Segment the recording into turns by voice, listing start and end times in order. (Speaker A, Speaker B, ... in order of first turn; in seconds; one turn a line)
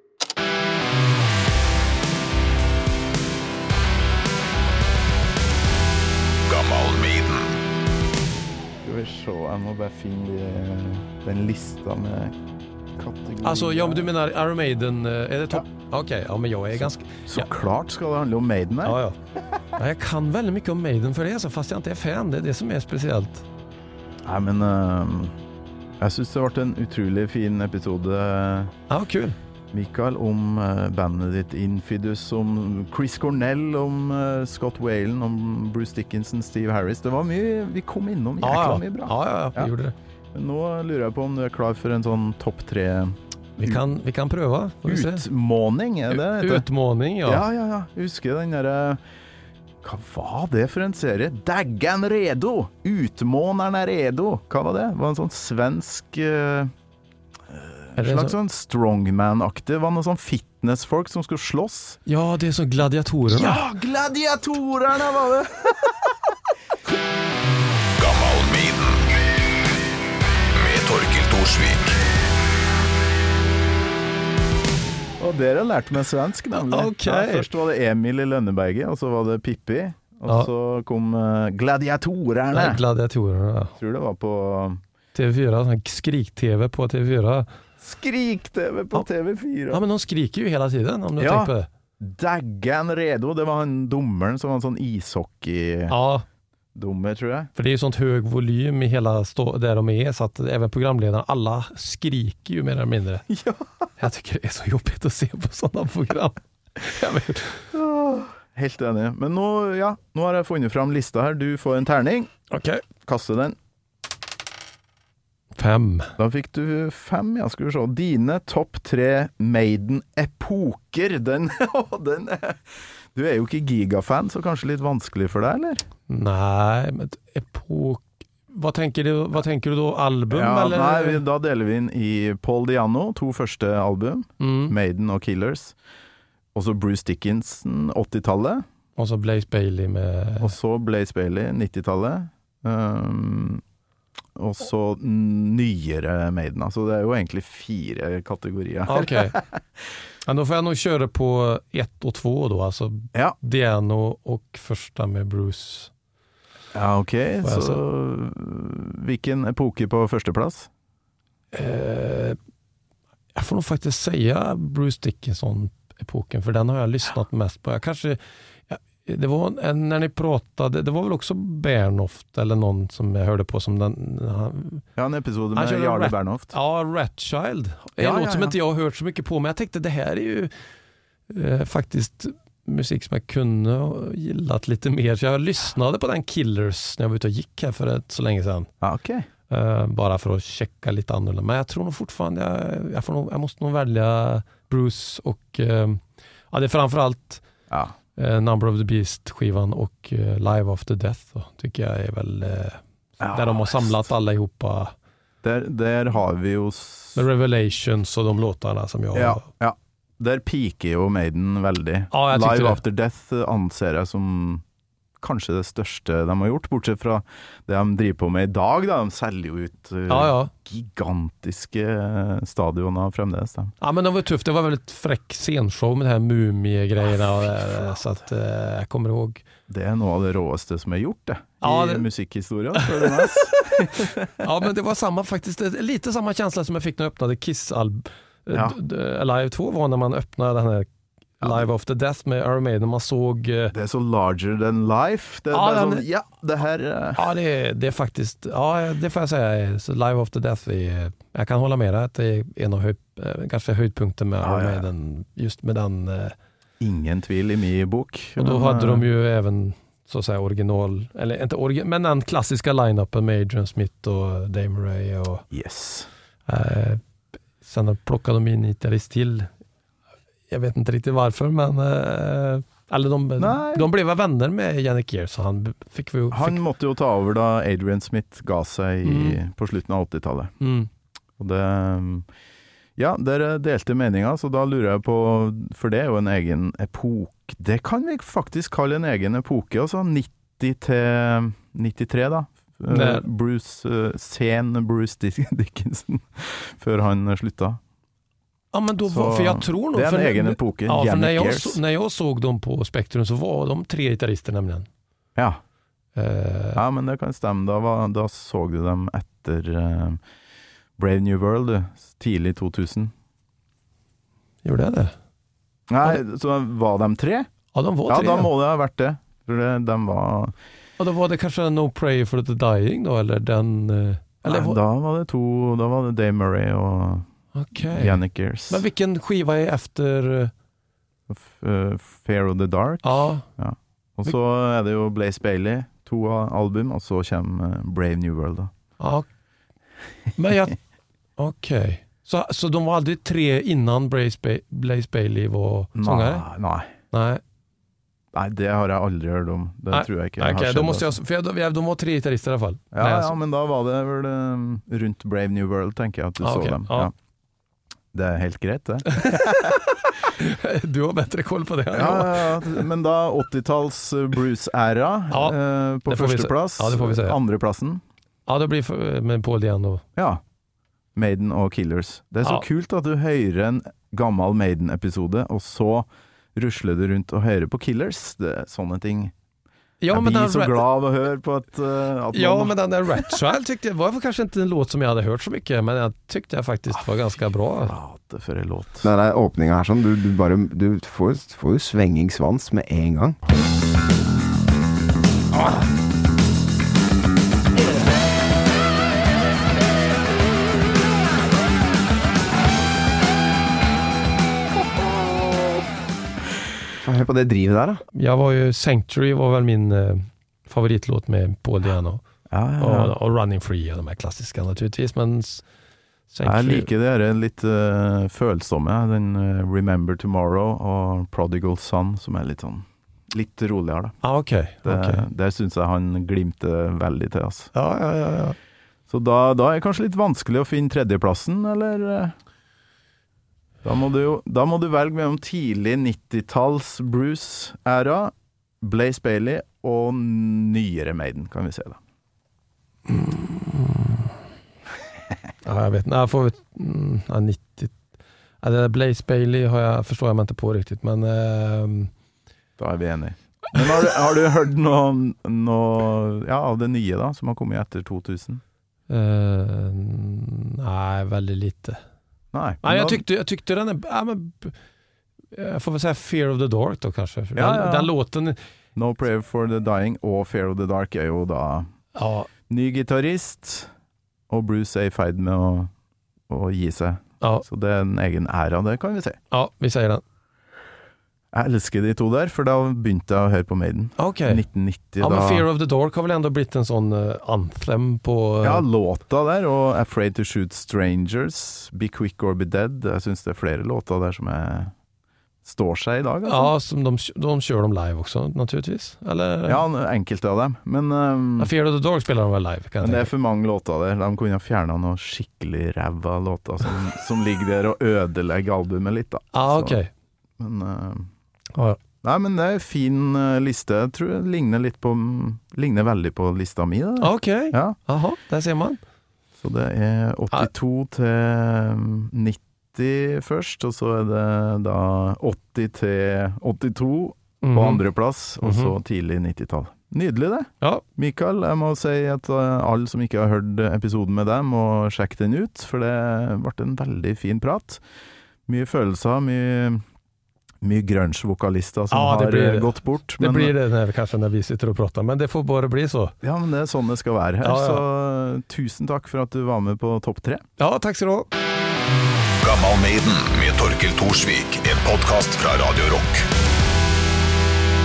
Speaker A: 6.5-7.5
Speaker B: 8.8-12.3
Speaker B: 13.0-14.1
Speaker C: 13.4-17.5
Speaker B: 16.7-19.0
Speaker C: 18.8-19.2
Speaker C: 19.8-23.4
Speaker B: 24.2-25.4
Speaker B: 26.0-28.7
Speaker C: 28.9-29.4
Speaker B: 29.7-39.7
Speaker C: 38.4-40.0
Speaker B: 40.3-43.9
Speaker C: 43.6-45.3
Speaker B: 44.9-46.7
Speaker C: 46.1-47.5
Speaker B: 47.2-49.0
Speaker B: 49.8-56.7
Speaker B: 57.5-62.0
Speaker C: 58.0-58.4
Speaker C: 62.1-63.6
Speaker B: 63.3-66.0
Speaker A: 68.0-69.0
Speaker A: 70.5-72.0
Speaker B: 75.2-82.8
Speaker C: 76.5-77.5
Speaker C: 82.5-83.8
Speaker B: 83.8-84.8
Speaker C: 85.1-87.5
Speaker B: 87.8-89.8
Speaker C: 89.7-91.7
Speaker B: 91.2-96.0
Speaker C: 95.9-96.2
Speaker B: 96.8-97.5
Speaker C: 97.5-103.2
Speaker B: 103.3-103.7
Speaker C: 104.0-107.7
Speaker B: 107.7-112.3
Speaker C: 112.5-112.8
Speaker B: 113.0-113.6
Speaker C: 115.6-116.1
Speaker B: 116.2-122.6
Speaker B: 123.1-125.8
Speaker C: 126.1-131.2
Speaker B: 130.3-135.8
Speaker C: 134.4-134.8
Speaker B: 136.6-138.6
Speaker C: 139.0-140.6
Speaker B: 140.4-143.6
Speaker B: 144.4-149.5
Speaker C: 148.9-149.4
Speaker C: 150.3-155.9
Speaker B: 156.7-160.7
Speaker C: 157.4-157.8
Speaker C: 161.5-162.4
Speaker C: 163.3-174.8
Speaker B: 175.0-176.6
Speaker C: 175.5-180.5
Speaker B: 178.0-178.6
Speaker C: 181.3-188.7
Speaker B: 188.8-189.3
Speaker C: 189.5-197.4
Speaker C: 198.2-204.9
Speaker B: 203.2-204.0
Speaker B: 205.4-207.2
Speaker C: 207.2-209.5
Speaker B: 209.1-214.6
Speaker C: 212.1-212.8
Speaker B: 215.2-223.7
Speaker C: 220.1-220.5
Speaker C: 223.8-229.4
Speaker B: 227.1-228.0
Speaker B: 229.7-234.5
Speaker C: 231.6-232.1
Speaker C: 232.8-240.9
Speaker B: 238.5-238.8
Speaker C: 241.4-243.7
Speaker B: 241.4-241.7
Speaker B: 243.7-247.2
Speaker C: 245.5-246.1
Speaker C: 247.2-256.4
Speaker B: 254.4-254.9
Speaker B: 256.8-259.1
Speaker C: 258.4-265.4
Speaker B: 265.5-266.1
Speaker C: 266.5-267.0
Speaker C: 267.6-269.5
Speaker C: 270.5-276.6
Speaker B: 273.4-273.9
Speaker B: 276.3-280.5
Speaker C: 279.0-279.4
Speaker C: 280.6-280.9
Speaker B: 281.4-282.3
Speaker B: 283.0-297.8
Speaker C: 292.9-293.3
Speaker C: 298.7-304.9
Speaker B: 299.1-301.8
Speaker C: 306.1-306.8
Speaker B: 306.8-310.2
Speaker B: 311.0-313.1
Speaker C: 314.6-315.1
Speaker B: 315.9-317.5
Speaker C: 317.7-318.5
Speaker B: 318.1-320.5
Speaker C: 321.0-324.8
Speaker B: 324.4-327.2
Speaker C: 327.6-330.5
Speaker B: 327.9-328.8
Speaker B: 331.3-338.7
Speaker C: 333.0-333.5
Speaker C: 339.0-339.3
Speaker C: 340.4-340.8
Speaker C: 341.4-346.5
Speaker B: 346.0-346.9
Speaker C: 347.1-347.4
Speaker B: 348.3-351.2
Speaker C: 349.9-353.4
Speaker B: 352.9-357.1
Speaker C: 356.4-357.1
Speaker B: 358.1-359.5
Speaker C: 359.1-362.9
Speaker B: 361.9-368.0
Speaker C: 365.3-367.4
Speaker C: 368.5-370.0
Speaker B: 370.2-370.4
Speaker B: 371.1-379.3
Speaker C: 380.0-380.9
Speaker B: 380.1-383.4
Speaker C: 382.3-388.0
Speaker B: 387.8-389.1
Speaker D: 389.0-393.4
Speaker D: 407.0-408.0
Speaker C: 408.1-412.2
Speaker B: 412.5-413.1
Speaker C: 412.8-415.6
Speaker C: 416.3-416.9
Speaker B: 416.4-424.2
Speaker C: 424.2-425.3
Speaker B: 424.9-427.7
Speaker C: 427.7-428.6
Speaker B: 429.1-432.4
Speaker B: 433.8-442.0
Speaker C: 443.1-444.4
Speaker C: 445.6-447.9
Speaker C: 448.6-452.1
Speaker B: 452.8-458.6
Speaker C: 459.1-462.0
Speaker B: 462.5-463.2
Speaker C: 462.8-464.8
Speaker C: 465.5-468.6
Speaker B: 467.6-468.1
Speaker B: 469.0-471.9
Speaker C: 472.1-472.5
Speaker B: 472.7-473.9
Speaker B: 474.5-475.9
Speaker B: 476.5-479.4
Speaker C: 479.5-480.2
Speaker B: 481.5-485.7
Speaker C: 484.2-484.6
Speaker C: 485.2-488.8
Speaker B: 488.6-494.9
Speaker B: 495.6-496.7
Speaker C: 496.4-499.9
Speaker B: 499.7-501.7
Speaker C: 501.6-503.3
Speaker B: 503.0-510.0
Speaker C: 509.5-510.1
Speaker B: 510.6-511.3
Speaker C: 511.7-512.0
Speaker B: 512.2-518.0
Speaker C: 517.2-519.0
Speaker B: 519.6-538.0
Speaker C: 527.6-528.1
Speaker C: 528.6-529.0
Speaker B: 538.7-540.0
Speaker B: 540.8-543.8
Speaker C: 542.1-546.4
Speaker B: 546.4-550.6
Speaker C: 547.6-548.1
Speaker C: 550.8-551.5
Speaker A: 552.6-556.5